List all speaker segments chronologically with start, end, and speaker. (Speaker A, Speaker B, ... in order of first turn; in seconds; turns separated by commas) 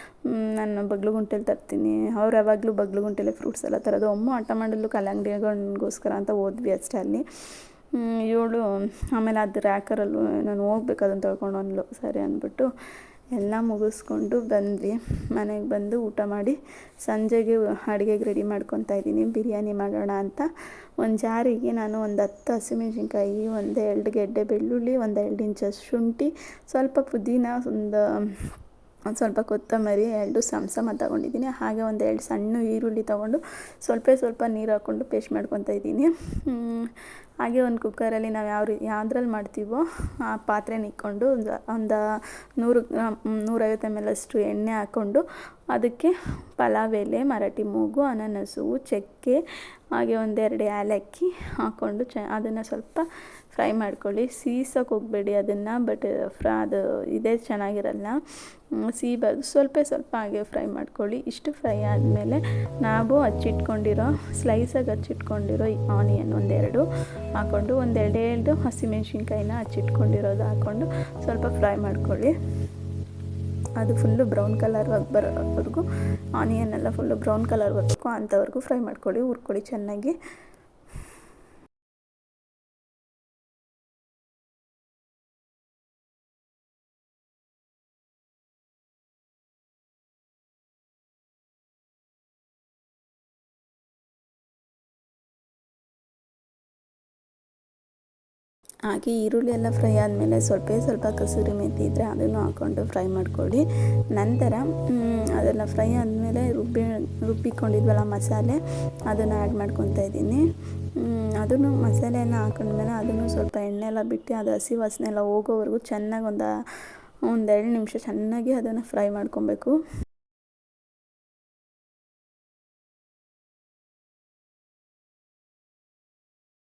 Speaker A: 0.2-7.2, Speaker A: 8.0-12.7, Speaker A: 13.3-20.5, Speaker A: 21.0-28.5, Speaker A: 29.1-42.0, Speaker A: 42.6-49.4, Speaker A: 50.0-58.2, Speaker A: 58.8-66.8, Speaker A: 67.4-72.3, Speaker A: 73.8-75.9, Speaker A: 76.4-80.2, Speaker A: 98.9-110.4, Speaker A: 111.0-116.5, Speaker A: 117.3-119.8